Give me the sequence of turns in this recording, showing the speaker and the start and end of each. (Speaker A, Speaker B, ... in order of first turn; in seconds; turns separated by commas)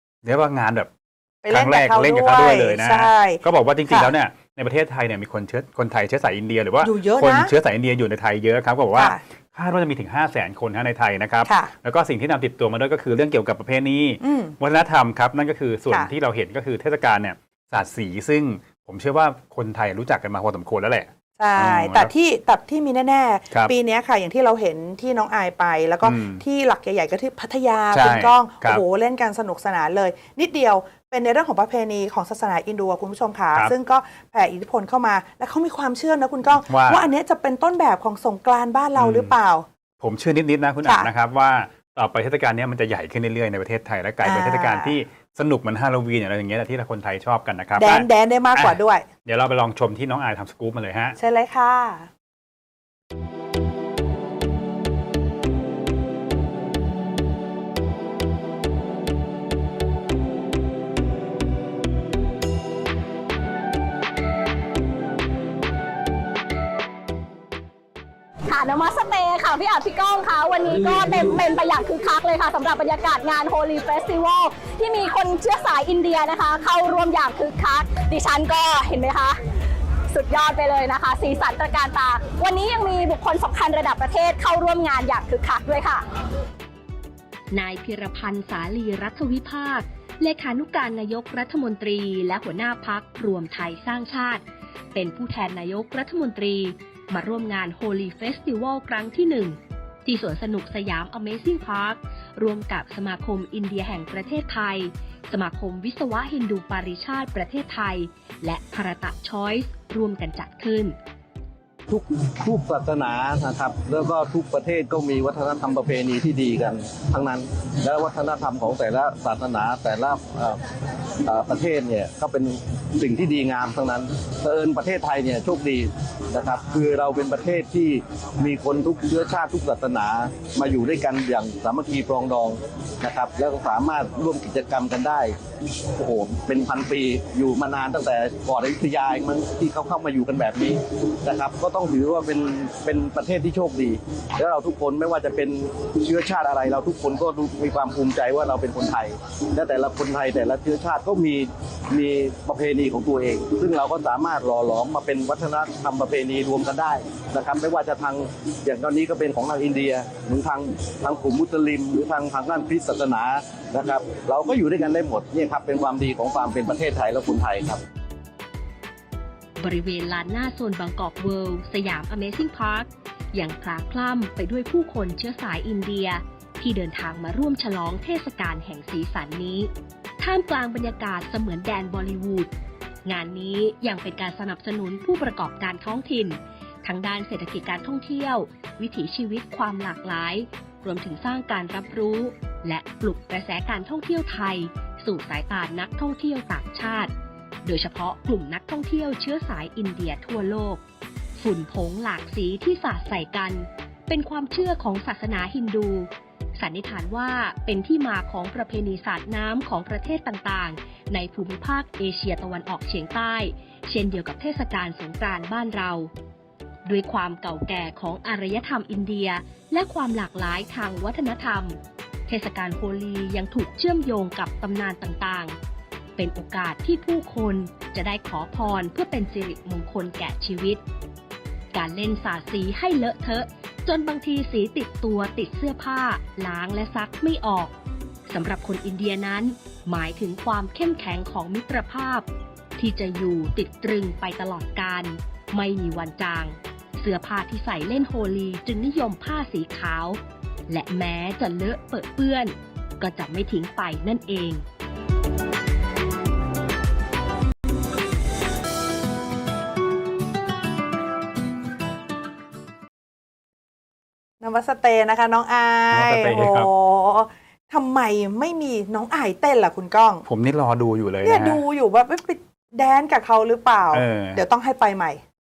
Speaker A: 0.2-0.9, Speaker B: 1.4-4.1, Speaker A: 1.5-22.1, Speaker B: 6.8-7.5, Speaker B: 8.9-9.2, Speaker B: 11.4-11.7, Speaker B: 14.2-14.6, Speaker B: 21.4-39.6, Speaker A: 26.0-26.4, Speaker A: 27.9-28.8, Speaker A: 36.6-37.1, Speaker A: 39.0-39.4, Speaker A: 40.0-51.2, Speaker B: 40.8-41.1, Speaker B: 44.2-45.0, Speaker B: 47.8-49.0, Speaker B: 51.1-52.1, Speaker C: 68.4-79.4, Speaker C: 80.1-86.1, Speaker D: 87.5-111.0, Speaker E: 111.9-120.6, Speaker E: 121.2-135.3, Speaker E: 135.9-167.8, Speaker D: 169.6-182.5, Speaker D: 183.0-197.1, Speaker D: 197.6-200.8, Speaker D: 201.3-216.1, Speaker D: 216.8-225.6, Speaker D: 226.2-230.8, Speaker D: 231.7-237.7, Speaker D: 238.3-254.6, Speaker B: 264.4-270.2, Speaker A: 265.9-266.7, Speaker A: 270.2-271.6, Speaker B: 271.2-275.2, Speaker A: 273.9-274.4